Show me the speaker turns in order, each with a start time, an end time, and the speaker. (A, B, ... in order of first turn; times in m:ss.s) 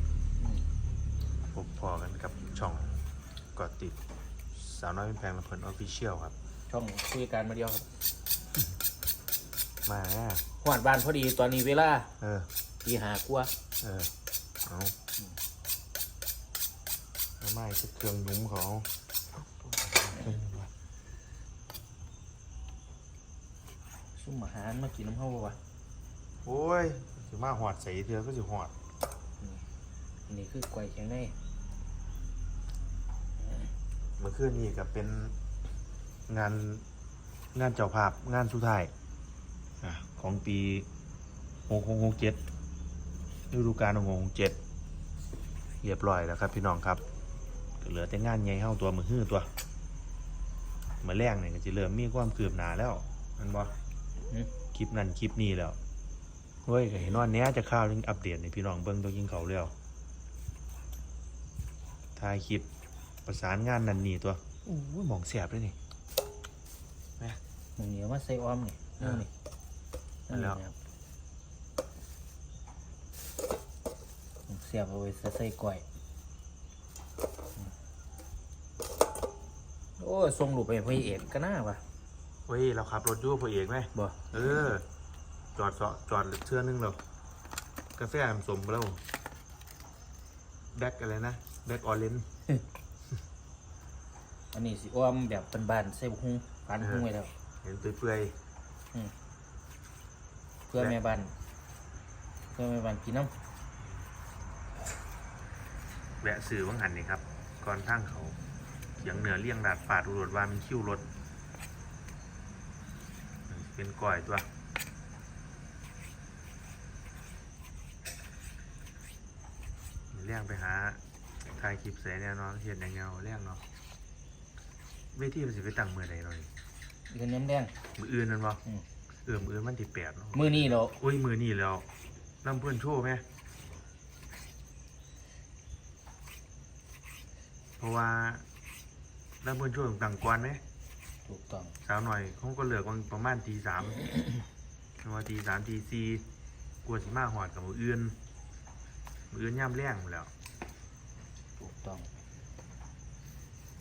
0:00.4-0:00.6 A
0:01.5-0:02.9 B
0:03.6-0:04.0 B
0:04.5-0:06.3 B
0:06.7-0:07.9 A
0:09.8-0:10.4 B
0:10.6-0:12.1 A
0:12.2-0:12.5 B
0:12.8-0:13.5 A
0:13.8-0:14.1 B
0:14.6-0:14.9 B
0:17.4-0:18.9 B
0:19.6-0:20.7 B
0:24.1-0:25.6 A
0:26.4-0:28.7 B
0:30.3-0:31.4 A
0:33.4-0:33.7 A
0:34.2-0:35.3 B
0:36.3-0:36.8 B
0:37.5-0:38.9 B
0:39.8-0:40.9 B
0:41.7-0:42.4 B
0:43.5-0:44.6 B
0:45.8-0:47.0 B
0:47.8-0:49.5 B
0:51.0-0:53.7 B
0:54.7-0:55.8 B
0:56.6-0:59.7 B
1:02.2-1:02.6 B
1:03.2-1:05.8 B
1:07.8-1:09.3 A
1:09.0-1:09.2 B
1:10.3-1:10.8 A
1:10.3-1:10.6 B
1:14.5-1:15.8 A
1:20.0-1:21.8 A
1:22.5-1:24.8 B
1:24.0-1:24.3 A
1:25.5-1:27.0 B
1:28.0-1:29.0 B
1:30.7-1:32.3 B
1:34.5-1:37.3 A
1:36.8-1:37.1 B
1:37.6-1:38.4 B
1:40.7-1:41.3 A
1:42.5-1:43.3 A
1:46.2-1:48.4 B
1:49.0-1:51.0 B
1:53.5-1:54.5 B
2:00.1-2:03.6 B
2:05.1-2:06.5 B
2:07.1-2:07.7 A
2:08.0-2:08.6 B
2:09.2-2:11.8 B
2:10.3-2:11.0 A
2:12.4-2:13.2 B
2:17.8-2:18.4 B
2:19.4-2:20.6 B
2:21.2-2:21.7 A
2:21.8-2:24.0 B
2:25.0-2:26.2 B
2:26.8-2:28.1 B
2:29.3-2:30.3 B
2:31.6-2:32.1 A